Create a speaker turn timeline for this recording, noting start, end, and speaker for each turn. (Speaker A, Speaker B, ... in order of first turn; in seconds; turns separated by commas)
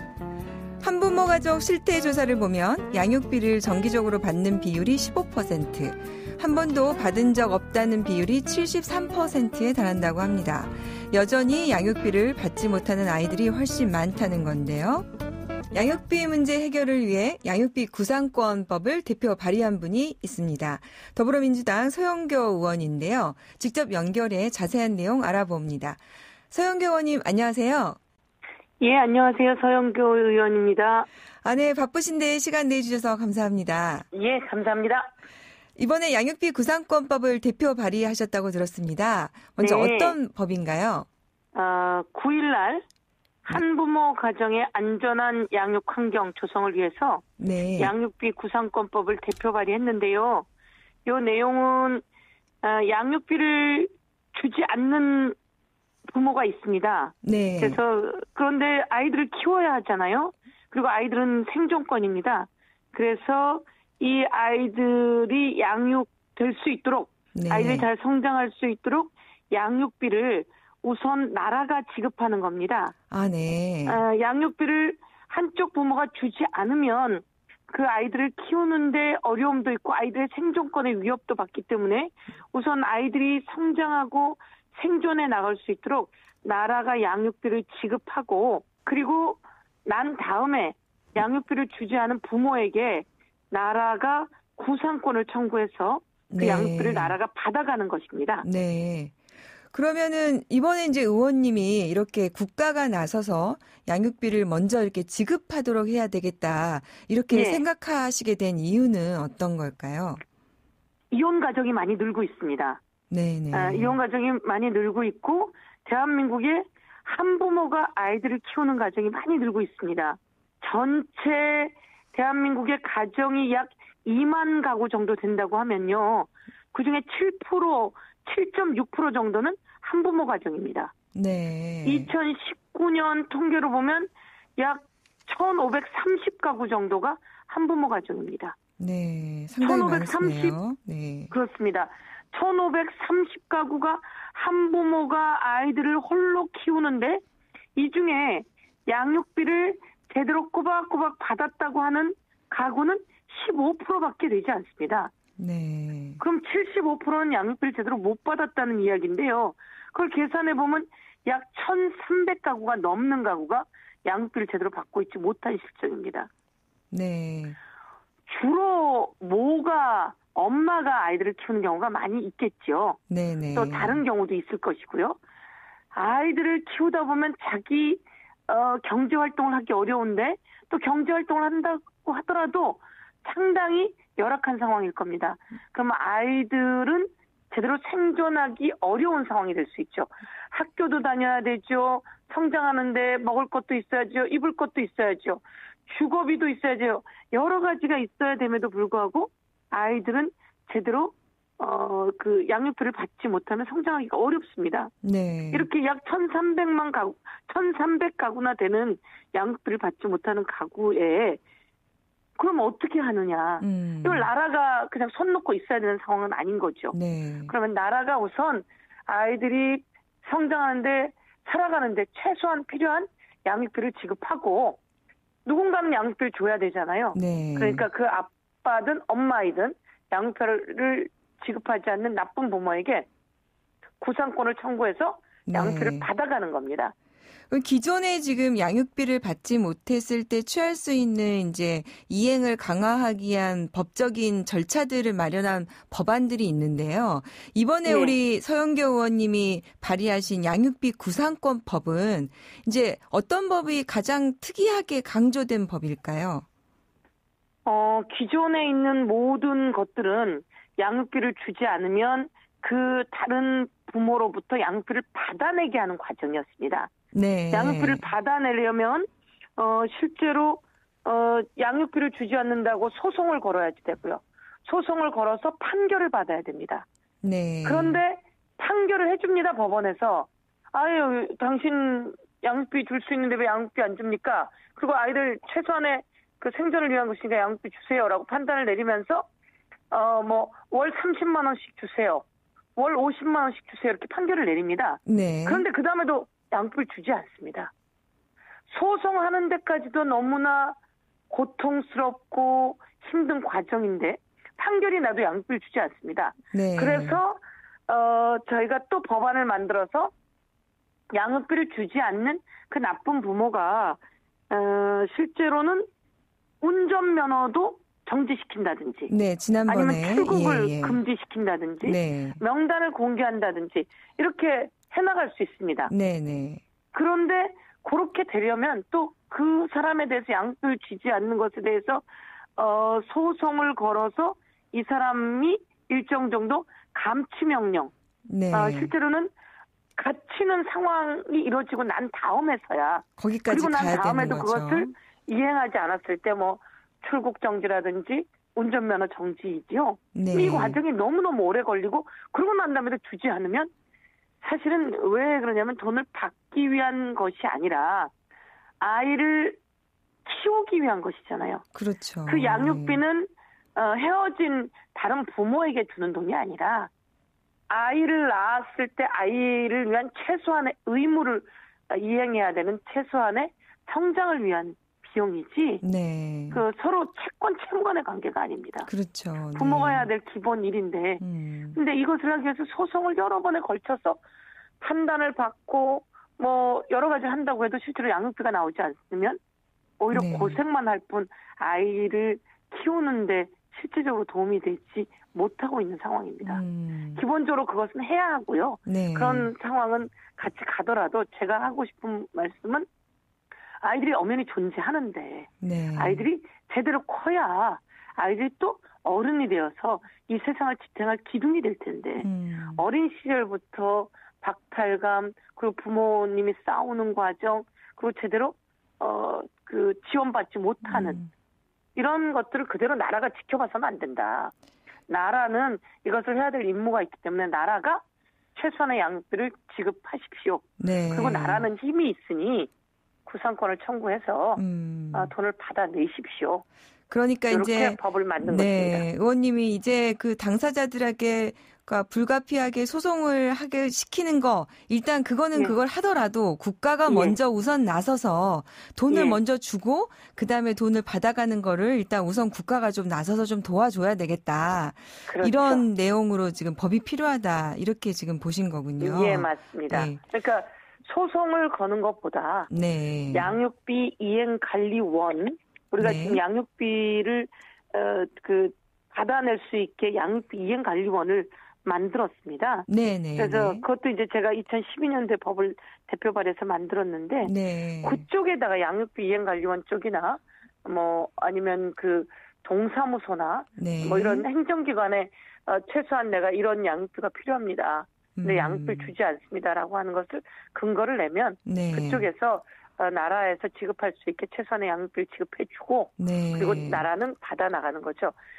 Speaker A: 0.8-15.1, Speaker A: 15.7-26.0, Speaker A: 26.5-28.0, Speaker B: 28.8-31.1, Speaker A: 31.4-34.1, Speaker B: 34.1-35.1, Speaker A: 35.8-41.1, Speaker B: 39.6-40.2, Speaker B: 41.5-42.8, Speaker B: 43.5-47.2, Speaker A: 47.4-47.9, Speaker B: 47.8-50.5, Speaker B: 51.1-52.0, Speaker B: 52.6-55.4, Speaker B: 56.1-72.9, Speaker A: 57.2-57.8, Speaker A: 67.3-67.9, Speaker A: 73.1-74.0, Speaker B: 73.9-98.5, Speaker A: 96.3-97.2, Speaker A: 98.4-99.1, Speaker A: 99.7-110.2, Speaker B: 107.3-107.6, Speaker B: 111.1-112.8, Speaker A: 113.1-114.0, Speaker B: 113.5-130.9, Speaker A: 131.1-132.1, Speaker B: 131.8-138.6, Speaker A: 138.8-141.3, Speaker B: 139.6-140.6, Speaker B: 141.3-147.2, Speaker B: 147.8-155.1, Speaker A: 155.4-156.2, Speaker B: 156.2-166.3, Speaker A: 166.9-167.6, Speaker B: 168.3-173.0, Speaker A: 173.1-174.0, Speaker B: 173.5-175.2, Speaker B: 175.9-204.9, Speaker A: 205.0-205.7, Speaker B: 205.5-211.4, Speaker B: 212.4-224.8, Speaker A: 213.6-214.3, Speaker A: 216.9-217.5, Speaker B: 225.4-233.1, Speaker A: 227.1-227.8, Speaker B: 234.0-236.9, Speaker A: 235.5-236.1, Speaker A: 237.5-256.4, Speaker B: 247.8-248.2, Speaker B: 257.7-266.9, Speaker A: 267.1-268.1, Speaker B: 267.5-269.1, Speaker B: 269.6-276.9, Speaker A: 277.2-278.0, Speaker B: 277.6-289.2, Speaker B: 289.9-292.2, Speaker B: 292.8-297.7, Speaker A: 295.1-295.6, Speaker B: 298.7-300.8, Speaker B: 301.3-310.1, Speaker A: 306.5-307.2, Speaker B: 311.1-315.9, Speaker B: 316.6-319.1, Speaker A: 319.1-321.0, Speaker B: 319.7-325.9, Speaker A: 321.8-322.4, Speaker A: 325.9-326.6, Speaker B: 326.9-332.1, Speaker B: 332.6-337.9, Speaker A: 338.3-338.9, Speaker B: 338.5-339.3, Speaker B: 340.0-353.7, Speaker A: 343.2-344.9, Speaker A: 350.1-350.8, Speaker B: 354.4-358.1, Speaker B: 358.8-359.6, Speaker B: 360.2-361.6, Speaker A: 361.8-363.0, Speaker B: 362.3-366.9, Speaker B: 367.7-375.8, Speaker A: 375.8-376.6, Speaker B: 376.5-378.9, Speaker A: 378.9-380.1, Speaker B: 379.6-381.2, Speaker A: 381.2-381.8, Speaker B: 381.8-384.2, Speaker B: 384.8-389.4, Speaker B: 390.0-396.6, Speaker A: 390.1-390.6, Speaker A: 396.4-397.2, Speaker B: 397.1-402.9, Speaker A: 398.9-399.5, Speaker B: 403.8-421.2, Speaker A: 405.6-406.2, Speaker A: 412.2-412.8, Speaker A: 420.9-421.3, Speaker B: 422.0-424.5, Speaker B: 425.1-428.0, Speaker B: 428.6-432.7, Speaker A: 430.8-431.7, Speaker B: 433.3-434.6, Speaker A: 434.6-435.3, Speaker B: 435.1-436.6, Speaker A: 437.1-460.2, Speaker B: 437.5-439.1, Speaker B: 447.1-447.4, Speaker B: 449.1-449.4, Speaker B: 455.3-455.9, Speaker B: 459.0-462.7, Speaker A: 462.7-463.5, Speaker B: 463.3-498.4, Speaker A: 466.0-466.4, Speaker A: 472.9-473.8, Speaker A: 477.4-478.2, Speaker A: 483.8-484.5, Speaker A: 488.4-489.1, Speaker A: 491.7-492.3, Speaker A: 496.2-497.1